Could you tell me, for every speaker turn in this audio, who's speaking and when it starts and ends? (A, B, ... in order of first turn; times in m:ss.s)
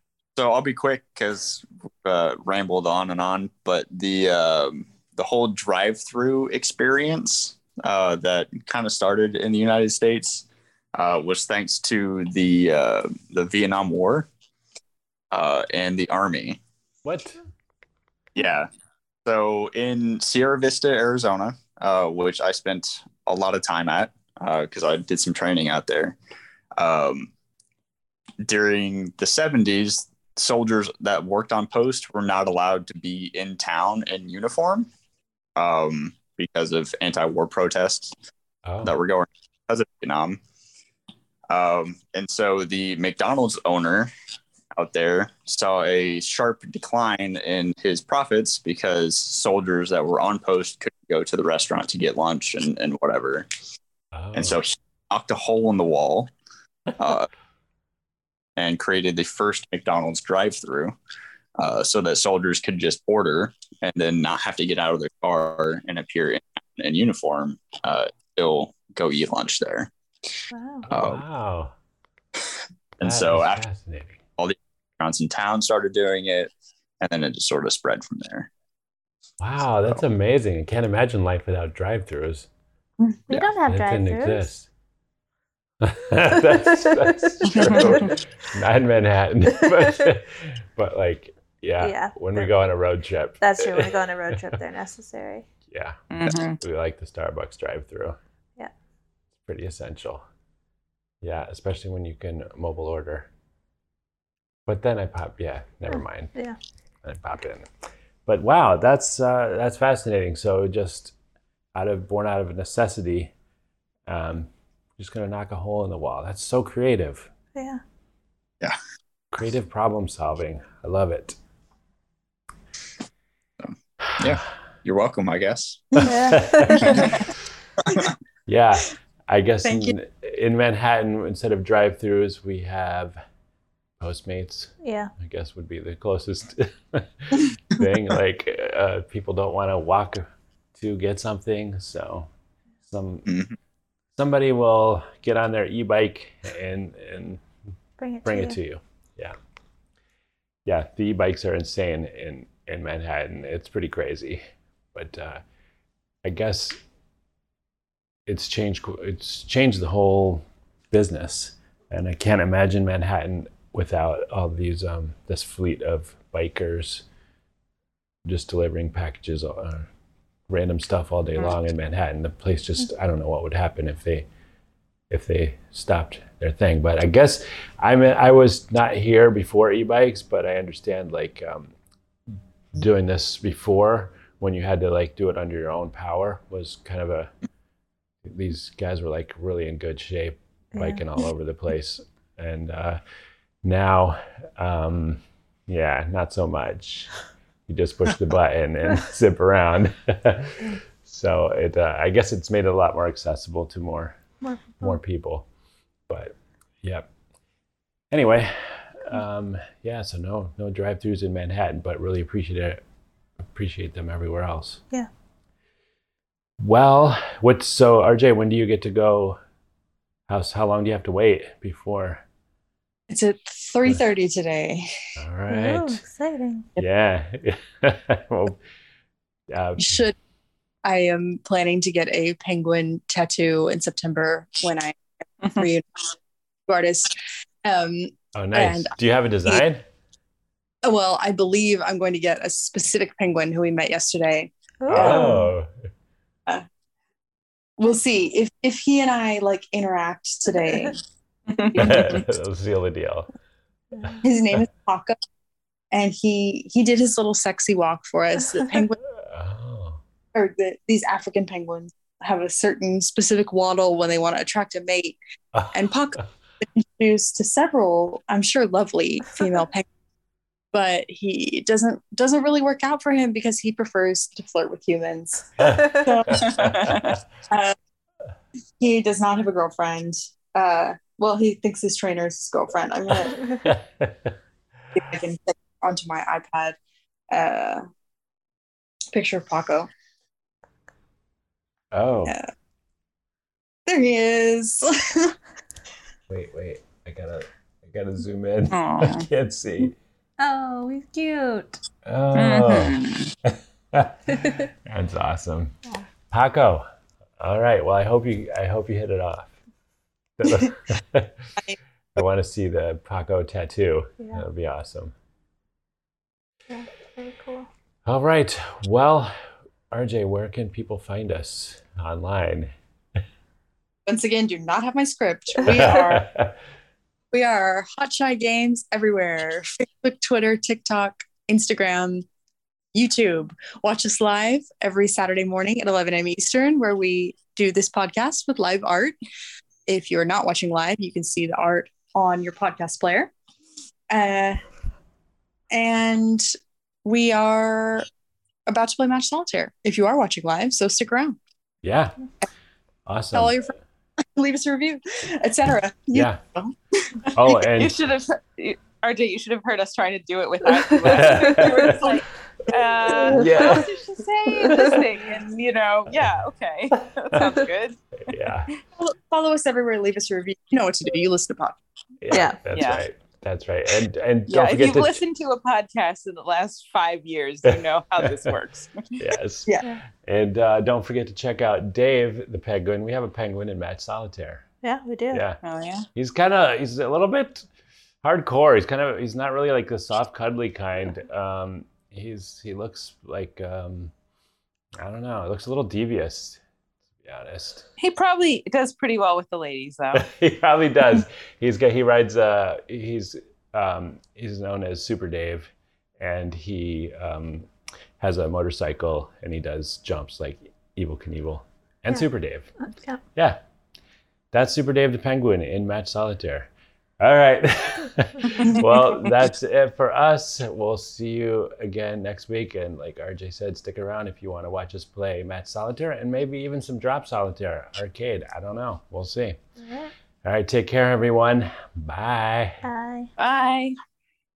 0:00.4-0:14.3 A
0:15.3-0:16.6 A
0:17.0-0:17.4 B
0:18.4-0:18.7 A
0:19.2-0:26.2 A
0:26.8-0:27.3 A
0:28.4-0:34.9 A
0:35.6-0:38.1 A
0:38.6-0:38.9 B
0:38.8-0:40.4 A
0:41.5-0:44.1 A
0:44.7-0:53.6 A
0:54.1-0:54.6 B
0:54.3-0:56.3 A
0:57.0-0:57.3 A
0:58.6-1:01.0 A
1:01.6-1:09.9 A
1:10.5-1:10.8 C
1:10.8-1:11.7 B
1:10.9-1:11.2 A
1:13.0-1:13.6 A
1:13.0-1:14.2 B
1:14.4-1:18.5 A
1:19.4-1:22.5 B
1:23.3-1:24.4 C
1:23.6-1:24.7 B
1:25.8-1:34.5 B
1:31.8-1:32.5 C
1:33.4-1:35.5 C
1:35.7-1:36.0 B
1:36.1-1:36.6 D
1:36.6-1:38.2 B
1:39.4-1:40.2 B
1:41.2-1:43.3 B
1:44.7-1:46.4 B
1:47.0-1:47.7 B
1:48.2-1:51.1 B
1:51.7-1:53.3 B
1:54.1-1:57.3 B
1:57.5-1:57.8 C
1:59.3-2:01.4 B
2:03.6-2:06.1 A
2:04.1-2:04.4 B
2:06.0-2:07.2 C
2:06.2-2:07.1 B
2:08.5-2:13.2 B
2:09.6-2:09.9 E
2:14.0-2:22.3 B
2:14.8-2:15.1 C
2:22.8-2:23.3 B
2:23.3-2:23.5 A
2:24.1-2:27.4 B
2:28.0-2:28.6 C
2:28.2-2:29.3 B
2:30.6-2:34.4 B
2:34.9-2:35.4 B
2:36.2-2:36.8 B
2:38.2-2:47.0 B
2:48.2-2:49.9 B
2:50.5-2:54.2 B
2:55.1-3:01.7 B
3:02.7-3:07.3 B
3:08.2-3:13.0 B
3:10.7-3:11.0 C
3:13.6-3:17.1 B
3:17.7-3:24.2 B
3:24.4-3:25.0 C
3:24.8-3:25.5 B
3:26.1-3:27.1 B
3:28.1-3:32.8 B
3:33.5-3:34.8 B
3:36.6-3:39.4 B
3:40.3-3:42.2 B
3:43.1-3:44.9 E
3:45.2-3:46.0 B
3:45.5-3:46.7 C
3:46.8-3:48.6 B
3:49.5-3:50.0 B
3:49.8-3:50.1 E
3:50.8-3:56.1 E
3:56.7-3:58.9 E
3:58.3-3:59.8 B
4:00.8-4:05.4 E
4:04.8-4:05.5 C
4:04.9-4:05.7 B
4:07.8-4:11.0 E
4:11.5-4:12.2 D
4:11.7-4:13.3 B
4:14.2-4:15.2 E
4:15.9-4:19.0 E
4:19.2-4:20.0 B
4:20.3-4:25.2 E
4:25.5-4:25.8 B
4:25.7-4:29.8 E
4:30.7-4:37.0 E
4:35.6-4:37.2 B
4:36.4-4:37.1 D
4:37.5-4:37.7 E
4:38.8-4:43.5 E
4:43.6-4:44.3 B
4:44.9-4:46.8 E
4:47.3-4:47.8 E
4:49.1-4:49.9 E
4:51.9-4:52.3 B
4:53.8-4:55.3 E
4:56.3-4:59.9 B
4:58.7-4:59.2 D
5:00.4-5:01.8 C
5:02.0-5:05.8 B
5:02.3-5:03.3 D
5:06.3-5:06.8 B
5:07.4-5:09.6 B
5:10.4-5:11.4 B
5:12.1-5:15.1 B
5:16.7-5:17.7 C
5:18.0-5:22.7 B
5:24.0-5:26.2 E
5:25.6-5:26.5 B
5:27.3-5:32.2 E
5:32.9-5:39.1 E
5:39.9-5:43.3 E
5:44.1-5:44.6 E
5:45.7-5:46.5 E
5:47.0-5:48.1 E
5:48.6-5:51.4 E
5:51.8-5:52.1 B
5:53.0-5:53.6 B
5:53.3-5:53.7 E
5:54.3-5:57.6 E
5:56.1-5:56.4 B
5:57.3-5:58.1 B
5:57.7-6:08.0 D
6:01.0-6:02.0 B
6:01.1-6:02.2 E
6:02.8-6:03.1 E
6:03.3-6:03.9 B
6:08.3-6:08.7 B
6:09.0-6:11.8 E
6:12.2-6:15.2 B
6:12.3-6:12.6 C
6:12.7-6:13.0 D
6:14.5-6:19.2 D
6:17.6-6:18.5 B
6:19.2-6:24.6 B
6:24.8-6:25.4 C
6:25.3-6:25.6 B
6:25.6-6:26.1 D
6:26.1-6:27.7 B
6:28.2-6:34.1 B
6:35.0-6:36.6 B
6:37.2-6:37.8 B
6:38.0-6:40.2 D
6:40.1-6:47.7 B
6:48.2-6:52.7 B
6:52.8-6:53.2 C
6:54.5-7:09.6 B
7:09.8-7:10.1 C
7:10.4-7:12.8 B
7:12.8-7:13.3 C
7:13.4-7:14.0 D